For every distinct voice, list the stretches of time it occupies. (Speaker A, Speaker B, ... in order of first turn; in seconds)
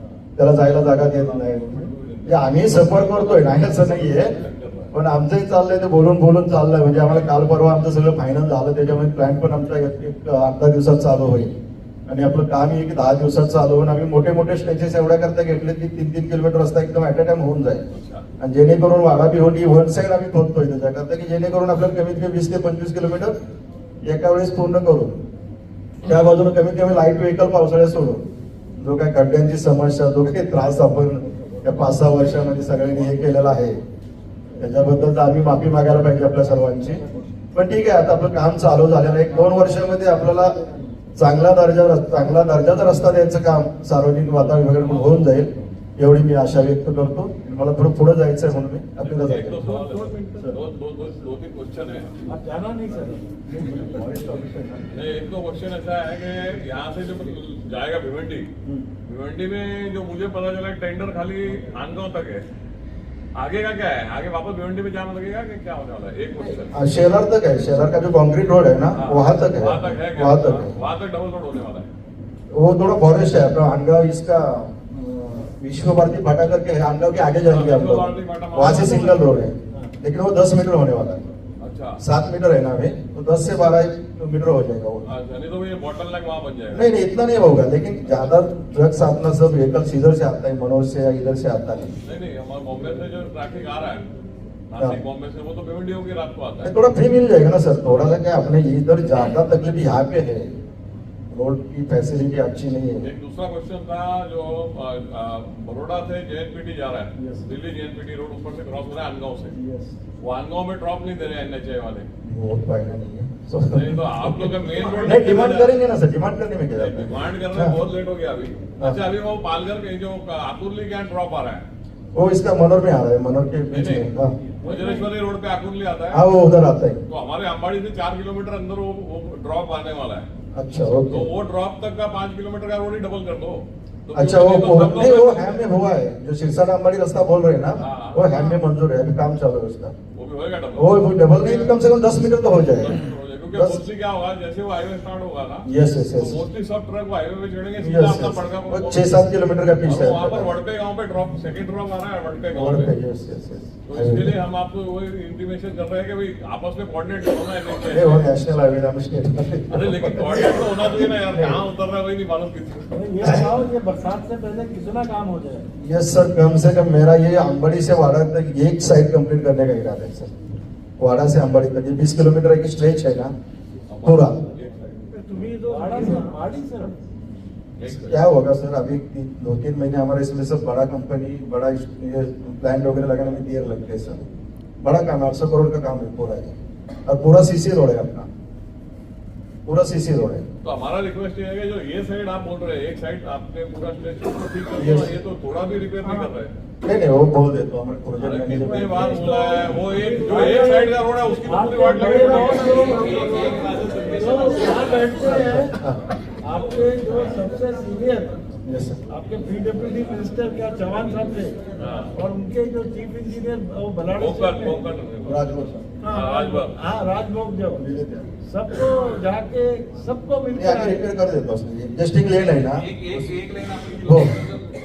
Speaker A: 0.4-4.4, 4.9-11.5, 12.1-17.8, 18.4-23.3, 24.1-25.2, 26.1-28.3, 28.8-33.8, 34.6-37.0, 37.5-40.6, 41.2-49.6, 66.7-70.8, 72.5-81.2, 82.0-85.1, 86.7-92.0, 96.6-100.5, 101.3-103.1, 107.2-107.4, 109.6-109.9, 112.3-117.8, 122.2-124.3, 126.1-127.0, 130.6-131.3, 134.1-139.9, 140.8-143.0, 143.5-143.8, 145.7-146.4, 147.8-150.5, 152.5-154.3, 157.9-161.6, 163.2-163.5, 165.8-170.3, 171.0-173.3, 174.0-174.4, 177.8-184.3, 184.8-186.5, 187.1-188.3, 189.7-190.4, 194.8-195.1, 196.8-199.2, 205.2-206.0, 208.7-209.0, 215.3-215.9, 217.8-218.3, 220.5-223.1, 223.9-224.5
Speaker B: 1.9-4.9, 17.9-18.2, 49.0-52.1, 54.9-58.5, 59.1-62.4, 63.4-66.7, 69.0-71.9, 77.5-79.2, 81.6-82.0, 85.1-86.9, 92.0-94.1, 94.7-96.7, 103.0-109.5, 110.2-112.1, 113.7-115.8, 116.8-121.6, 123.7-124.1, 124.6-126.2, 127.1-130.2, 131.1-135.6, 137.8-138.6, 140.2-141.7, 142.8-149.1, 149.8-152.9, 153.8-158.3, 159.7-162.9, 173.9-175.0, 177.8-178.3, 190.6-196.5, 198.2-204.8, 211.8-212.1, 214.2-215.4, 216.1-216.8, 223.0-224.0
Speaker C: 49.7-50.5, 52.3-54.7, 124.6-125.1, 162.9-165.7, 175.1-177.0, 198.6-205.8, 206.4-208.4, 209.1-211.6, 212.1-214.8, 216.0-217.8, 218.4-221.0